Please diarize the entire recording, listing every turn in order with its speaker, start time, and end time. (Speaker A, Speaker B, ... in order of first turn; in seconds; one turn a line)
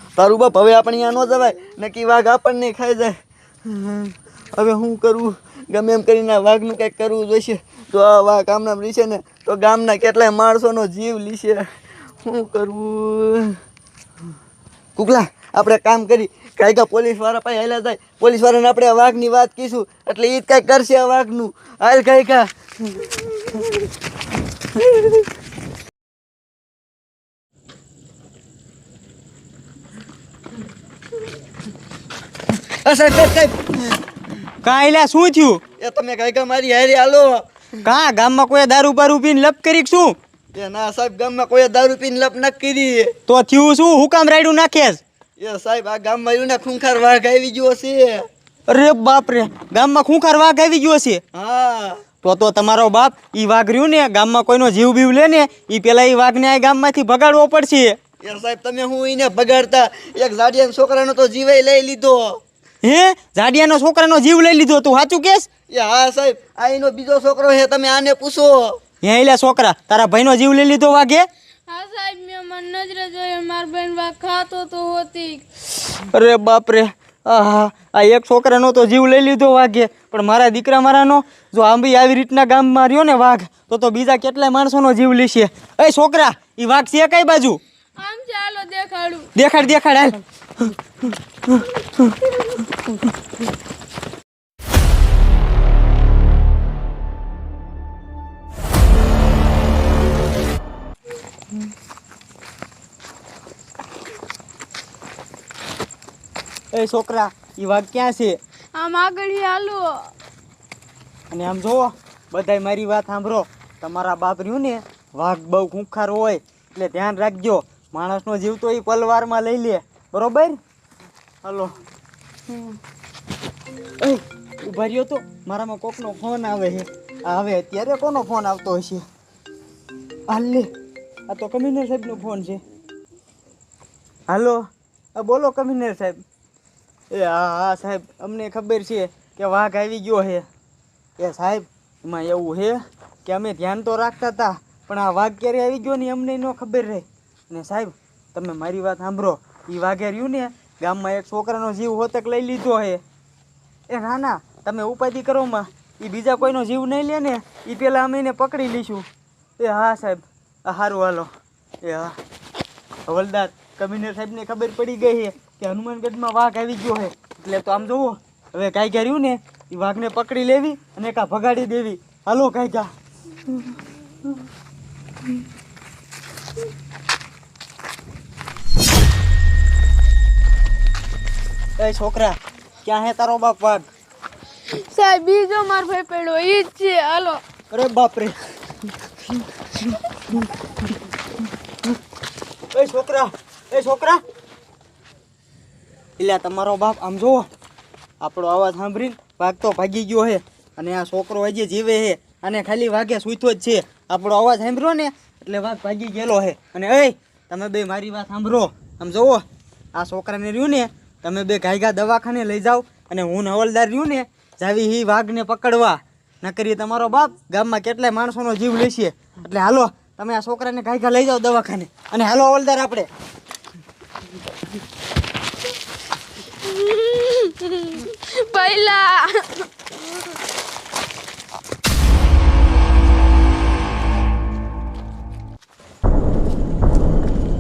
Speaker A: 0.2-11.7
Speaker A: 12.2-13.6
Speaker A: 14.9-23.6
Speaker A: 32.8-33.9
Speaker B: 34.6-35.6
Speaker A: 35.8-37.5
Speaker B: 37.8-40.2
Speaker A: 40.5-43.1
Speaker B: 43.3-45.0
Speaker A: 45.4-48.2
Speaker B: 48.7-51.2
Speaker A: 51.3-52.0
Speaker B: 52.2-58.0
Speaker A: 58.2-62.4
Speaker B: 62.8-65.5
Speaker A: 65.7-68.8
Speaker B: 69.0-71.3
Speaker C: 71.7-75.4
Speaker B: 75.9-87.6
Speaker C: 88.0-89.3
Speaker B: 89.3-92.1
Speaker B: 106.7-108.4
Speaker C: 108.8-110.1
Speaker B: 111.3-120.6
Speaker B: 121.4-121.7
Speaker B: 124.0-129.0
Speaker B: 130.3-130.7
Speaker B: 131.3-132.6
Speaker B: 134.3-136.2
Speaker B: 137.1-140.5
Speaker B: 141.2-153.0
Speaker B: 153.9-159.1
Speaker B: 159.6-161.3
Speaker B: 161.8-162.2
Speaker B: 163.1-172.9
Speaker B: 181.8-183.8
Speaker C: 184.7-187.4
Speaker B: 187.7-188.3
Speaker B: 192.7-194.2
Speaker B: 196.2-197.5
Speaker B: 198.2-209.4
Speaker B: 209.9-223.1
Speaker C: 226.6-229.7